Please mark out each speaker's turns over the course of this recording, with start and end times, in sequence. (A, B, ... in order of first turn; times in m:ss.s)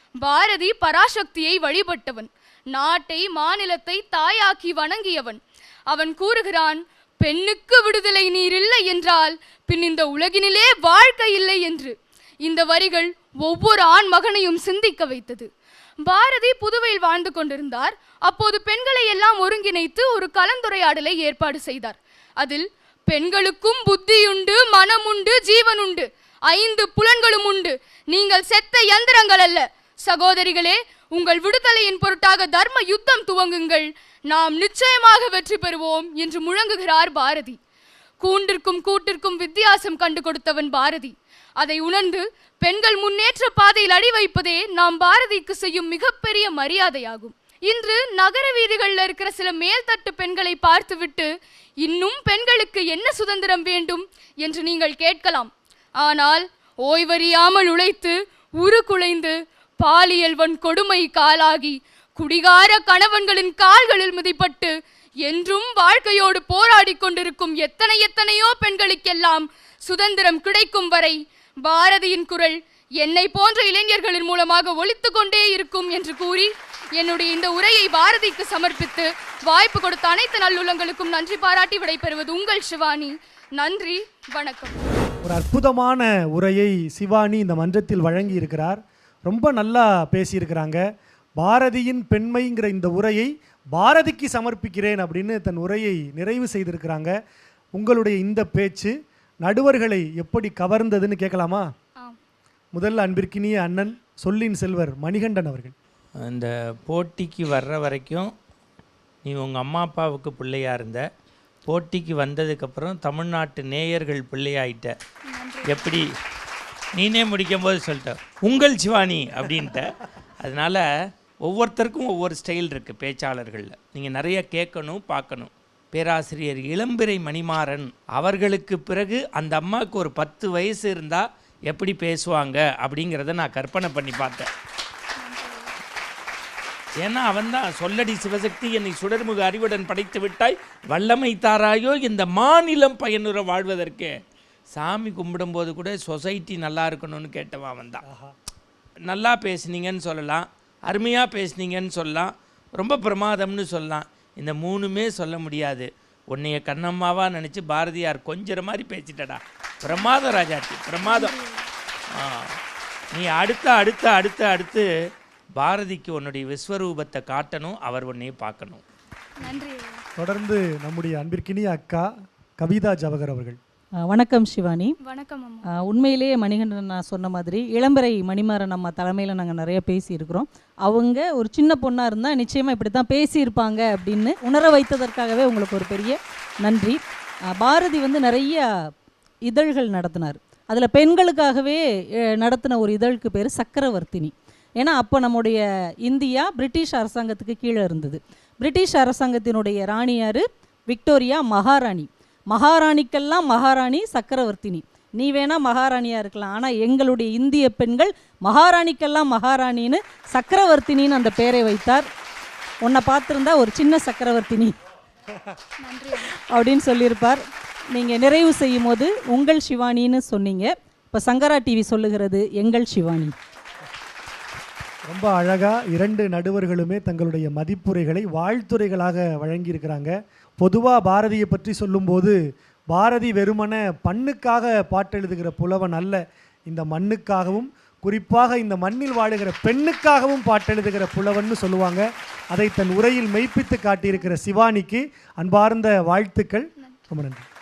0:00.2-0:15.5 A
0:16.1-0:37.6 A
0:38.2-0:51.3 A
0:51.8-1:04.7 A
1:05.2-1:24.8 A
1:25.2-1:30.8 B
1:31.4-1:37.1 B
1:37.7-1:38.9 B
1:39.4-1:41.6 B
1:42.7-1:45.7 B
1:46.2-1:48.3 C
1:49.2-1:51.0 C
1:51.7-1:55.0 C
1:55.3-1:56.0 A
1:55.7-1:56.0 C
1:56.9-2:00.8 C
2:01.4-2:14.5 C
2:15.2-2:15.7 A
2:17.0-2:24.1 C
2:24.7-2:28.0 C
2:28.0-2:28.3 B
2:29.0-2:41.3 C
2:41.0-2:41.6 A
2:42.2-2:42.5 C
2:43.1-2:44.8 C
2:45.6-2:48.8 C
2:49.4-2:50.0 A
2:50.2-2:52.0 B
2:52.6-2:53.6 B
2:54.1-2:55.0 D
2:55.0-2:55.6 A
2:55.7-3:07.0 D
3:07.6-3:08.7 D
3:09.4-3:11.8 D
3:12.4-3:32.1 D
3:32.8-3:34.7 D
3:35.8-3:36.3 A
3:36.5-3:43.3 D
3:45.1-3:52.4 B
3:52.9-4:07.4 B